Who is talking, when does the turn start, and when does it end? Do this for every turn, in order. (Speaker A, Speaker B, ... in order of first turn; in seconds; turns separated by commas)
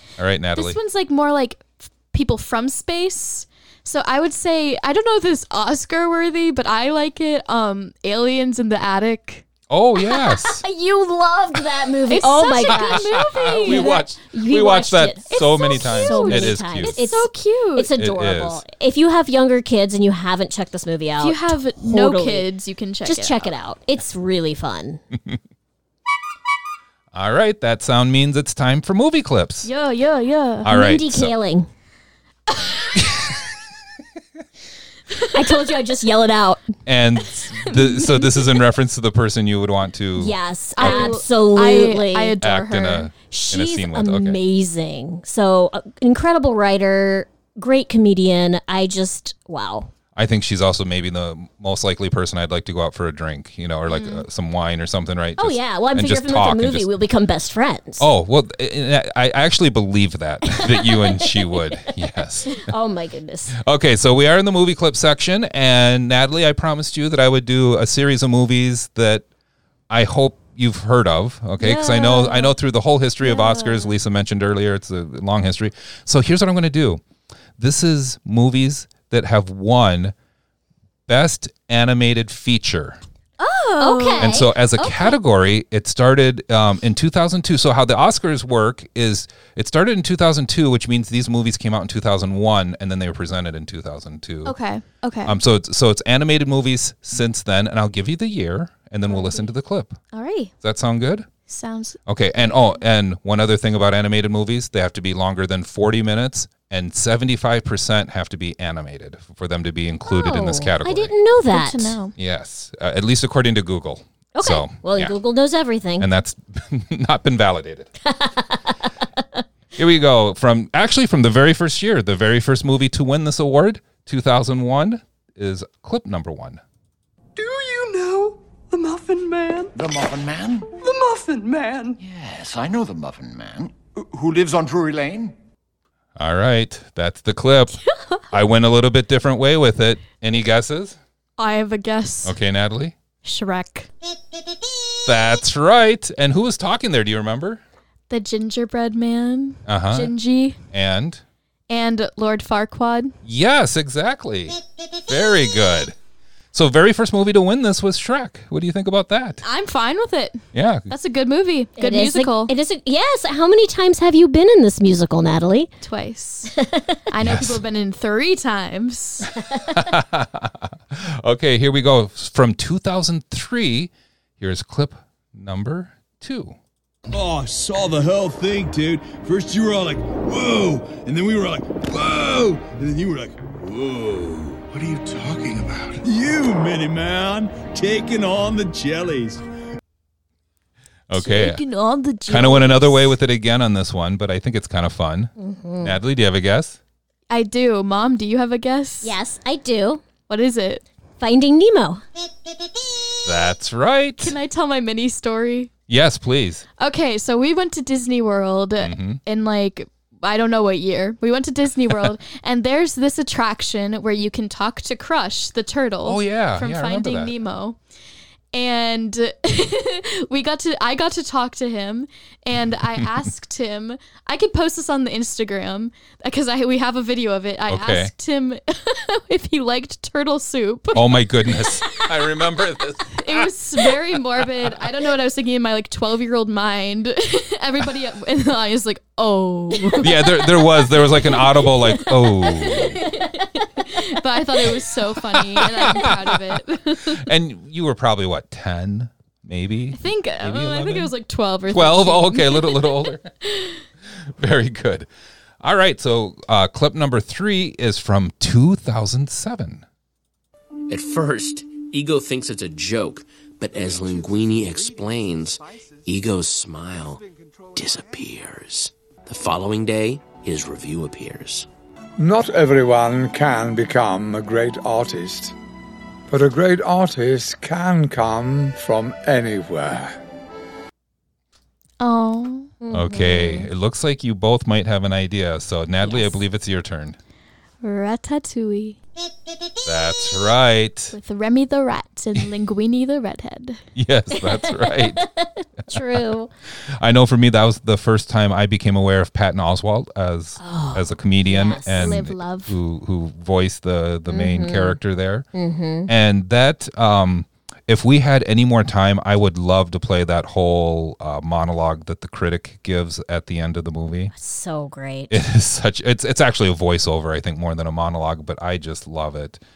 Speaker A: 0.2-0.8, Speaker B: 0.6-9.5, Speaker A: 9.7-10.6, Speaker C: 10.0-22.5, Speaker B: 12.1-14.1, Speaker A: 12.7-17.0, Speaker B: 15.3-17.9, Speaker A: 18.0-18.6, Speaker B: 21.2-23.5, Speaker C: 23.1-25.0, Speaker A: 27.1-29.7, Speaker B: 29.6-30.7, Speaker A: 30.6-31.3, Speaker C: 30.7-31.7, Speaker B: 32.5-33.2, Speaker A: 33.0-33.4, Speaker C: 35.3-36.7, Speaker A: 36.9-41.2, Speaker B: 37.6-38.6, Speaker C: 40.2-42.4, Speaker B: 40.8-43.1, Speaker A: 42.4-44.4, Speaker C: 43.3-49.9, Speaker A: 50.2-56.9, Speaker B: 53.9-54.2, Speaker C: 55.4-58.1, Speaker A: 58.0-62.7, Speaker C: 60.5-61.9, Speaker C: 62.5-63.6, Speaker A: 63.6-69.3, Speaker A: 69.9-77.0, Speaker B: 71.6-72.5, Speaker B: 73.3-73.9, Speaker A: 77.6-80.1, Speaker A: 81.1-83.0, Speaker B: 83.4-84.4, Speaker C: 83.8-85.1, Speaker A: 84.2-94.6, Speaker B: 94.5-95.4, Speaker A: 95.2-100.0, Speaker B: 99.1-99.5, Speaker B: 100.1-100.5, Speaker A: 100.6-101.3, Speaker B: 101.5-102.0, Speaker A: 102.1-111.1, Speaker C: 110.1-112.0, Speaker B: 111.5-112.1, Speaker A: 112.2-115.2, Speaker C: 114.4-116.1, Speaker A: 116.0-117.9, Speaker C: 118.0-119.4, Speaker A: 119.8-126.6, Speaker D: 127.4-129.7, Speaker E: 129.8-130.7, Speaker D: 130.8-132.0, Speaker E: 132.0-135.3, Speaker A: 136.2-141.0, Speaker B: 141.4-142.4, Speaker A: 142.2-142.9, Speaker B: 143.2-143.9, Speaker A: 145.1-147.6, Speaker B: 148.1-150.6, Speaker A: 149.7-150.1, Speaker A: 150.7-151.2, Speaker B: 151.7-153.1, Speaker A: 153.2-155.9, Speaker A: 156.5-159.4, Speaker B: 159.4-162.5, Speaker A: 160.5-160.9, Speaker C: 161.8-165.7, Speaker B: 165.8-166.5, Speaker C: 166.6-167.0, Speaker B: 167.1-169.3, Speaker A: 167.2-167.6, Speaker A: 169.7-176.6, Speaker F: 177.1-185.2, Speaker E: 184.7-186.0, Speaker F: 186.0-189.5, Speaker A: 191.1-191.6, Speaker B: 191.1-193.2, Speaker A: 192.3-196.8, Speaker C: 195.4-196.0, Speaker B: 197.3-199.2, Speaker C: 199.0-200.0, Speaker B: 200.3-200.8, Speaker C: 201.2-202.0, Speaker A: 203.2-204.3, Speaker B: 204.2-205.7, Speaker A: 205.9-206.6, Speaker B: 206.8-217.8, Speaker A: 208.8-209.2, Speaker A: 216.0-217.3, Speaker B: 218.5-232.2, Speaker A: 227.7-228.1, Speaker A: 230.9-234.9, Speaker B: 233.1-247.3, Speaker A: 240.0-243.0, Speaker C: 243.1-243.5, Speaker A: 245.3-251.1, Speaker B: 249.9-253.8, Speaker A: 251.7-253.3, Speaker A: 254.4-255.1, Speaker A: 255.6-259.9, Speaker G: 260.9-271.7, Speaker H: 272.2-275.5, Speaker H: 276.3-280.2, Speaker B: 282.0-282.7, Speaker C: 282.8-283.7, Speaker A: 282.9-287.2, Speaker C: 286.0-286.4, Speaker B: 287.8-289.0, Speaker A: 289.9-291.1, Speaker B: 291.1-293.8, Speaker A: 293.9-295.2, Speaker C: 294.3-296.5, Speaker A: 295.9-296.2, Speaker A: 296.9-305.5, Speaker C: 300.6-302.2, Speaker B: 301.9-302.8, Speaker C: 304.3-305.0, Speaker C: 305.5-306.1, Speaker A: 306.1-314.3, Speaker C: 314.3-315.4, Speaker A: 315.3-319.6